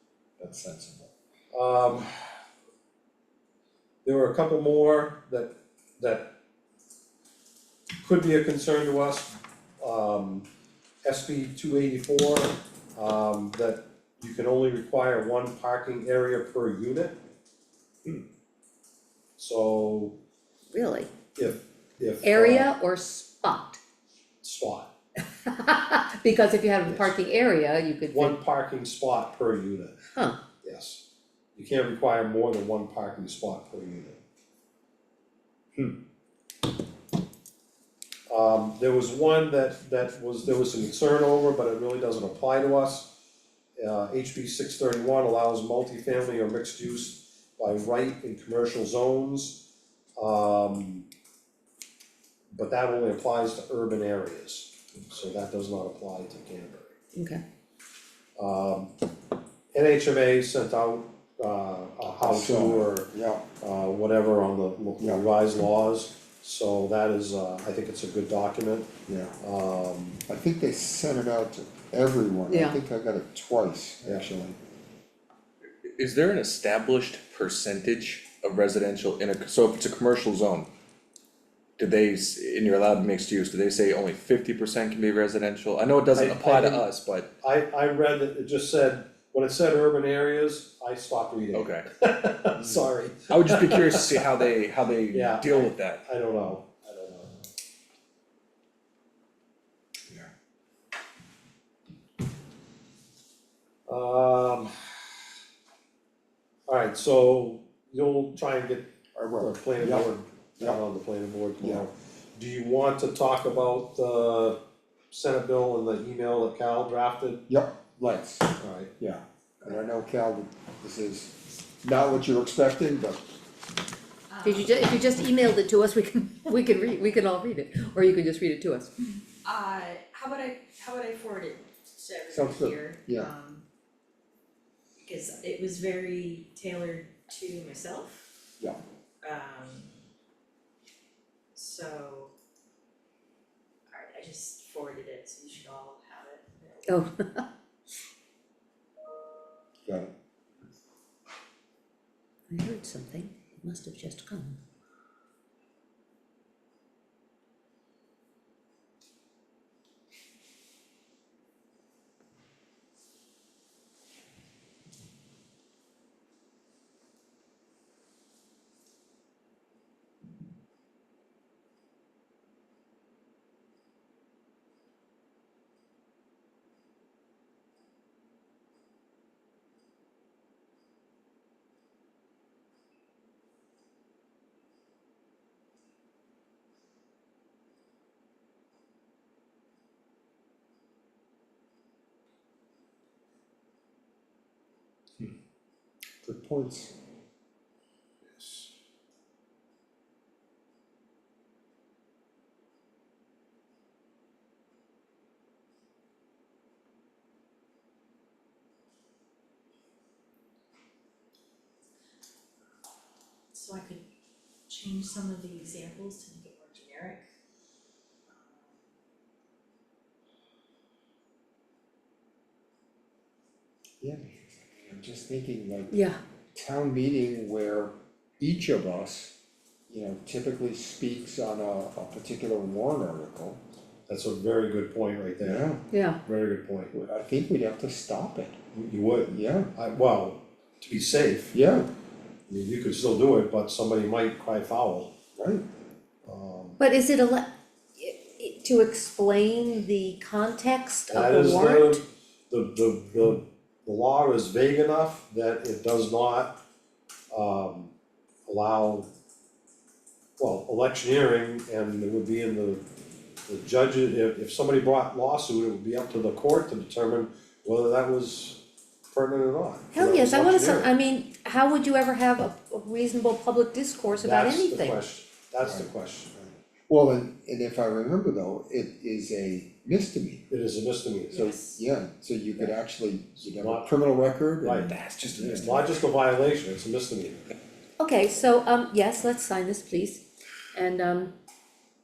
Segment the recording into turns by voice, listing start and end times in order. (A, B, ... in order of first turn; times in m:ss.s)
0:00.4-0:01.1 A
0:01.5-0:02.1 B
0:04.0-0:06.3 B
0:08.0-0:10.4 B
0:11.0-0:17.2 B
0:19.4-0:20.2 B
0:20.7-0:21.1 C
0:21.4-0:22.7 B
0:22.2-0:23.8 C
0:24.4-0:24.9 B
0:25.5-0:28.4 C
0:28.1-0:30.0 B
0:30.1-0:30.4 C
0:30.6-0:31.0 B
0:31.6-0:34.2 B
0:38.3-0:43.1 B
0:43.8-0:49.6 B
0:50.2-0:51.1 B
0:52.5-0:57.0 B
0:57.1-0:57.4 C
0:58.4-0:58.9 B
0:59.7-1:03.1 B
1:02.2-1:03.4 A
1:03.6-1:08.9 B
1:05.0-1:05.2 A
1:09.1-1:09.4 A
1:09.4-1:10.2 B
1:10.2-1:14.6 A
1:12.5-1:12.8 C
1:16.0-1:20.7 D
1:21.8-1:27.3 D
1:26.1-1:26.8 B
1:27.4-1:34.4 B
1:31.5-1:31.9 D
1:33.3-1:36.0 D
1:35.1-1:37.3 B
1:43.9-1:44.7 B
1:46.7-1:48.8 B
1:49.2-1:50.8 A
1:49.4-1:54.6 B
1:51.6-1:51.9 A
1:55.1-1:57.4 B
1:57.5-2:03.2 A
1:58.6-1:58.9 B
2:04.3-2:04.7 E
2:04.4-2:08.9 C
2:09.4-2:13.6 E
2:12.3-2:13.3 A
2:15.0-2:18.3 E
2:19.2-2:19.9 E
2:21.5-2:22.3 E
2:23.9-2:27.0 E
2:26.9-2:27.4 C
2:29.8-2:30.1 A
2:32.5-2:34.6 C
3:16.2-3:16.9 A
3:33.5-3:34.0 E
3:34.7-3:37.3 E
3:38.3-3:38.8 E
3:44.0-3:46.0 A
3:45.9-3:46.2 C
3:46.5-3:49.3 A
3:49.9-3:53.6 A
3:54.1-3:55.7 B
3:55.4-3:55.8 A
3:55.9-3:56.2 C
3:56.2-3:56.9 B
3:56.9-3:58.6 A
3:58.7-4:01.5 B
3:59.3-3:59.7 A
4:01.5-4:01.9 A
4:02.5-4:05.1 B
4:05.4-4:05.6 A
4:06.2-4:06.8 B
4:06.8-4:12.0 C
4:11.1-4:16.6 B
4:17.3-4:17.9 B
4:18.5-4:19.1 B
4:20.4-4:22.8 B
4:23.5-4:30.9 B
4:29.9-4:35.0 C
4:34.2-4:36.3 B
4:35.6-4:40.5 A
4:40.5-4:41.4 B
4:41.3-4:41.8 E
4:41.3-4:45.6 A
4:43.4-4:43.9 B
4:44.6-4:47.4 B
4:45.0-4:45.7 D
4:48.0-4:51.3 C